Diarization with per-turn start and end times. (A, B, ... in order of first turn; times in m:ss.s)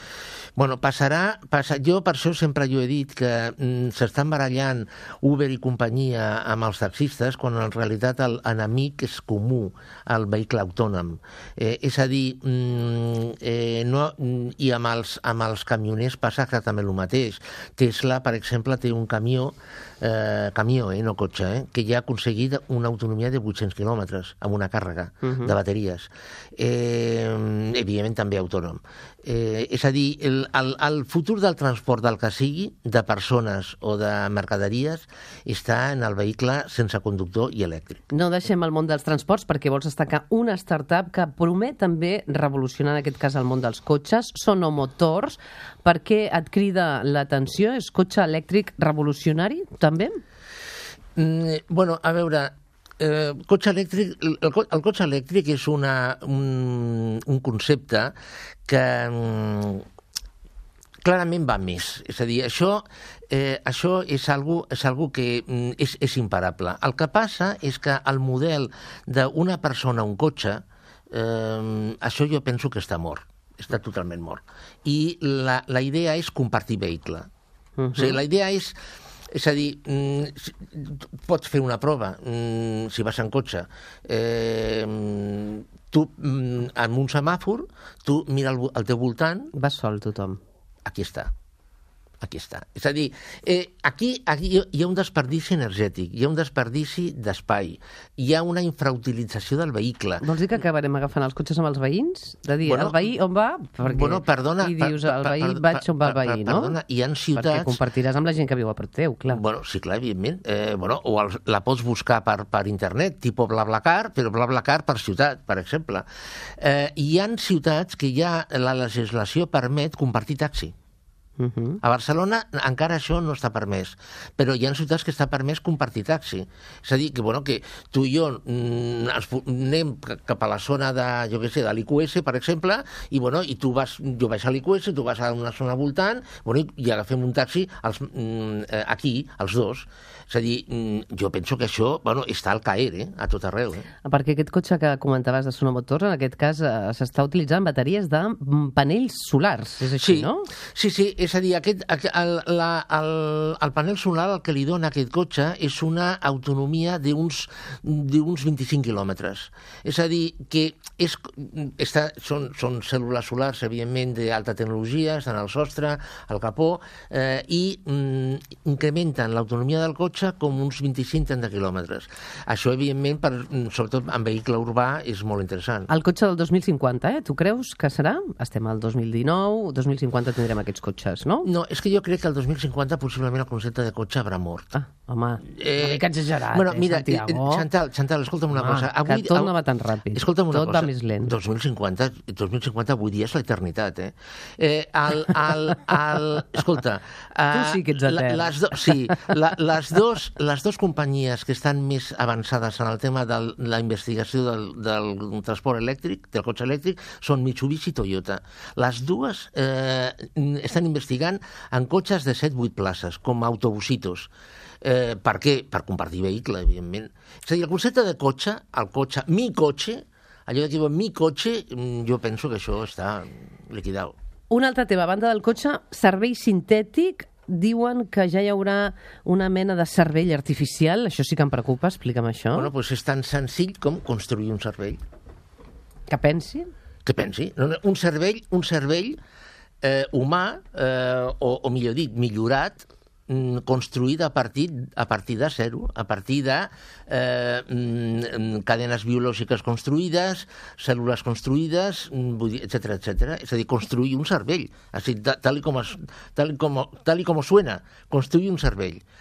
0:00.6-0:38.0 A
0:25.2-0:25.6 B
0:38.1-0:50.2 B
0:51.2-0:58.1 A
0:58.7-0:59.8 A
1:01.0-1:17.2 A
1:17.8-1:18.2 B
1:17.9-1:18.8 A
1:19.3-1:29.5 A
1:29.5-1:30.4 B
1:30.8-1:31.3 A
1:32.2-1:40.2 A
1:40.2-1:46.8 B
1:42.6-1:43.0 A
1:43.8-1:47.8 A
1:47.3-1:49.4 B
1:49.3-1:56.0 A
1:56.6-2:00.7 A
2:01.4-2:01.8 B
2:01.8-2:23.9 A
2:24.0-2:30.5 B
2:30.0-2:55.9 A
2:55.9-3:01.5 B
3:01.4-3:04.7 A
3:04.7-3:07.6 B
3:05.5-3:09.5 A
3:08.5-3:11.3 B
3:10.1-3:34.3 A
3:17.5-3:19.0 B
3:34.8-3:44.1 A
3:44.5-3:52.7 B
3:52.5-3:55.0 A
3:56.1-3:56.7 B
3:57.0-3:59.2 A
3:59.8-4:19.0 A